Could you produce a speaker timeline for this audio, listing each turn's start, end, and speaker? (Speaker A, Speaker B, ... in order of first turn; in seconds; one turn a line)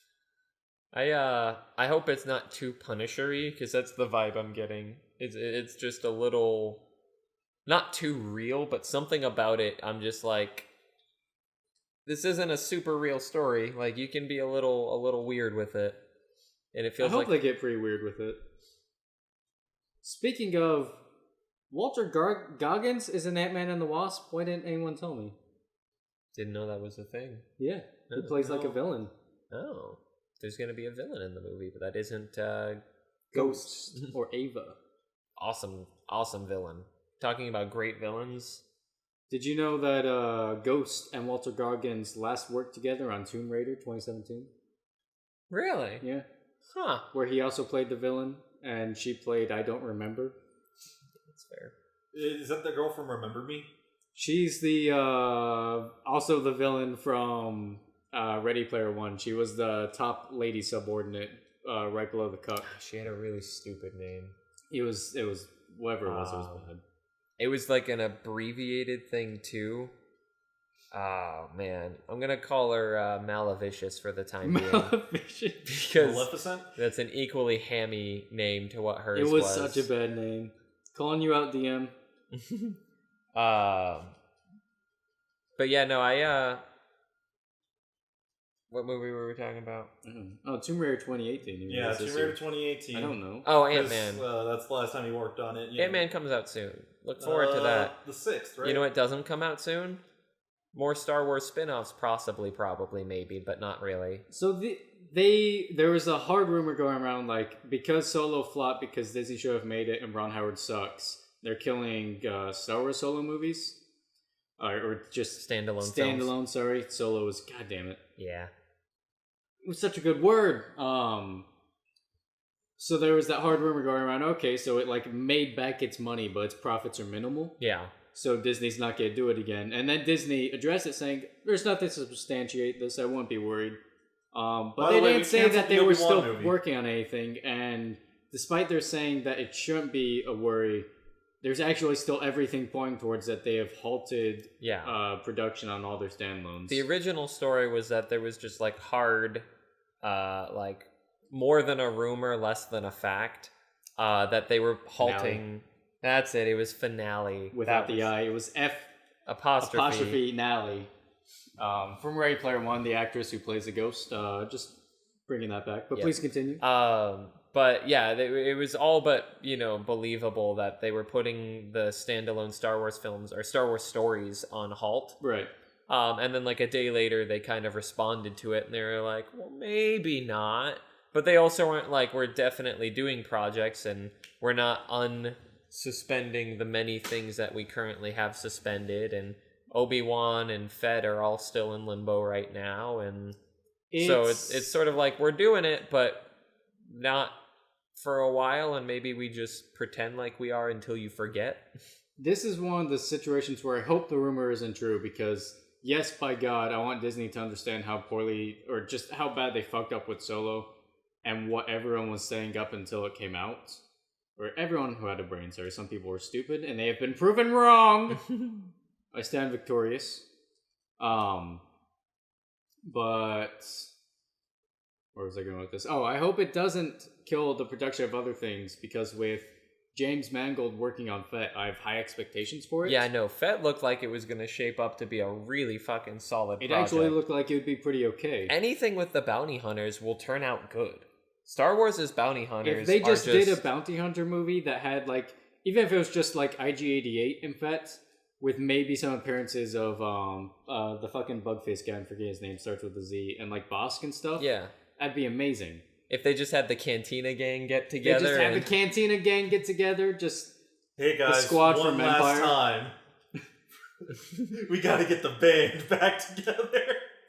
Speaker A: 0.9-6.8
Speaker A: 7.7-10.7
Speaker A: 12.1-16.0
Speaker A: 16.7-17.3
Speaker B: 17.0-18.4
Speaker B: 20.0-21.0
Speaker B: 21.7-25.4
Speaker A: 26.3-27.4
Speaker B: 27.6-29.1
Speaker A: 28.1-28.8
Speaker A: 29.5-32.8
Speaker B: 33.3-34.8
Speaker A: 33.3-34.1
Speaker A: 35.4-38.6
Speaker B: 39.3-44.5
Speaker A: 45.5-46.0
Speaker A: 46.7-47.0
Speaker B: 47.1-50.3
Speaker A: 51.2-51.7
Speaker C: 52.1-53.7
Speaker B: 54.1-62.7
Speaker A: 62.6-64.3
Speaker B: 64.7-66.8
Speaker A: 66.0-66.7
Speaker A: 67.4-69.9
Speaker A: 70.9-74.9
Speaker B: 74.4-75.7
Speaker A: 75.7-79.9
Speaker C: 76.0-76.7
Speaker B: 79.1-81.9
Speaker A: 82.3-82.8
Speaker A: 83.3-84.1
Speaker A: 85.6-86.6
Speaker A: 88.7-89.9
Speaker B: 90.0-92.4
Speaker C: 91.7-93.1
Speaker B: 92.9-93.5
Speaker A: 93.4-94.2
Speaker C: 93.7-96.0
Speaker A: 95.8-97.9
Speaker C: 97.2-98.8
Speaker A: 98.6-100.0
Speaker A: 100.7-104.2
Speaker B: 104.3-113.8
Speaker B: 114.6-118.0
Speaker A: 115.4-116.3
Speaker A: 118.2-118.5
Speaker B: 119.6-121.5
Speaker B: 122.8-127.5
Speaker A: 127.6-127.9
Speaker B: 128.1-133.8
Speaker B: 134.3-140.9
Speaker C: 134.8-136.6
Speaker B: 141.4-146.9
Speaker A: 144.6-144.9
Speaker A: 146.7-149.5
Speaker A: 150.0-158.1
Speaker B: 155.0-155.4
Speaker B: 157.5-158.9
Speaker A: 159.3-160.2
Speaker B: 159.6-160.9
Speaker B: 161.6-166.6
Speaker A: 165.9-175.2
Speaker B: 175.2-175.5
Speaker A: 175.9-193.3
Speaker B: 193.9-194.7
Speaker A: 194.0-196.2
Speaker A: 196.9-197.3
Speaker A: 197.9-201.6
Speaker B: 202.2-210.7
Speaker B: 211.2-213.8
Speaker B: 214.4-218.3
Speaker A: 218.3-218.7
Speaker B: 219.1-220.2
Speaker B: 221.0-221.6
Speaker B: 222.8-223.9
Speaker B: 225.1-233.1
Speaker A: 232.8-237.2
Speaker B: 236.6-238.5
Speaker A: 238.5-243.6
Speaker B: 242.6-255.8
Speaker A: 254.4-254.7
Speaker A: 256.1-258.7
Speaker B: 258.0-260.5
Speaker C: 261.0-262.9
Speaker B: 261.2-262.6
Speaker C: 264.5-267.0